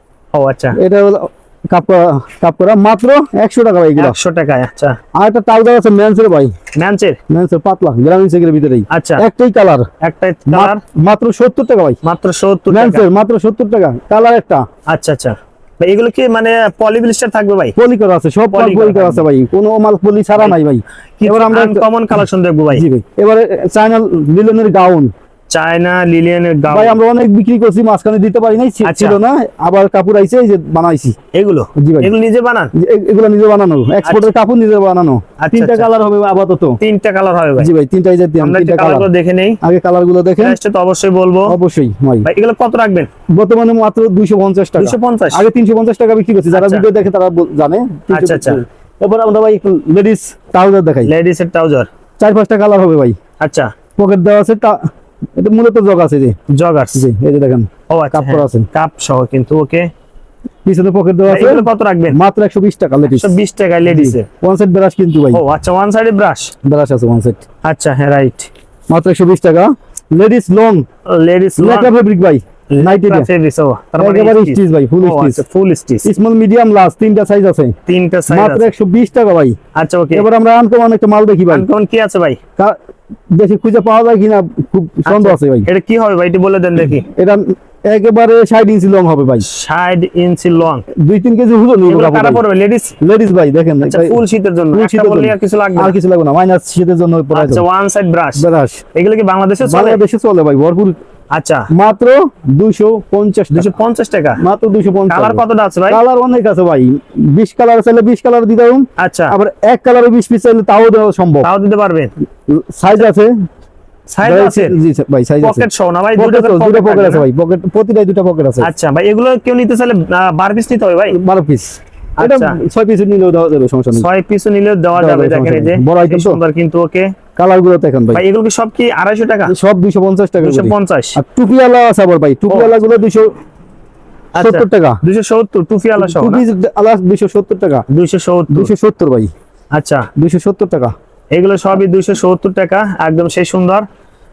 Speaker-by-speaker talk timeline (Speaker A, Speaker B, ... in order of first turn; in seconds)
Speaker A: 0.3-0.8, 4.0-5.0, 6.8-7.2, 8.9-9.2, 10.0-10.8, 12.0-13.1, 14.9-17.8, 18.5-19.3, 21.2-22.9, 25.5-27.0, 28.8-29.2, 31.3-32.7, 34.0-34.3, 35.4-35.9, 36.8-37.7, 38.4-39.6, 40.4-41.6, 42.2-43.1, 44.8-45.5, 46.5-46.8, 48.1-48.6, 51.1-51.9, 53.4-53.7, 56.5-57.1, 57.9-59.9, 61.3-62.2, 63.1-64.3, 65.3-66.5, 67.6-68.5, 71.1-71.9, 72.7-76.1, 77.9-78.7, 79.8-80.3, 81.5-82.4, 85.1-87.1, 89.4-90.9, 91.9-93.0, 93.8-96.0, 97.3-100.0, 101.3-101.7, 103.5-104.4, 105.1-106.0, 109.0-109.3, 111.4-112.1, 114.1-114.8, 115.4-117.3, 118.6-121.2, 122.2-122.6, 123.9-127.1, 128.1-129.5, 130.4-131.2, 132.5-132.8, 134.3-136.4, 137.9-138.7, 139.7-140.1, 141.3-143.9
Speaker B: 0.8-4.2, 5.2-6.5, 7.3-9.9, 10.5-12.0, 12.7-14.6, 17.8-21.9, 22.7-25.1, 26.7-31.2, 31.8-32.1, 32.8-36.8, 37.6-39.1, 39.6-40.6, 41.5-42.3, 43.3-51.1, 52.2-53.2, 54.0-54.9, 55.4-56.4, 57.0-58.7, 60.6-65.4, 66.7-67.4, 68.9-70.8, 71.6-73.3, 74.0-75.4, 76.0-77.8, 78.3-79.6, 80.1-81.7, 83.3-85.7, 87.0-89.5, 91.0-92.4, 93.0-94.2, 94.7-97.7, 98.4-98.8, 99.6-101.0, 101.7-103.7, 104.4-111.5, 112.5-113.3, 114.2-118.7, 121.1-124.1, 125.0-126.4, 127.4-128.2, 129.5-133.3, 134.4-135.0, 136.0-137.8, 138.5-139.3, 140.2-140.9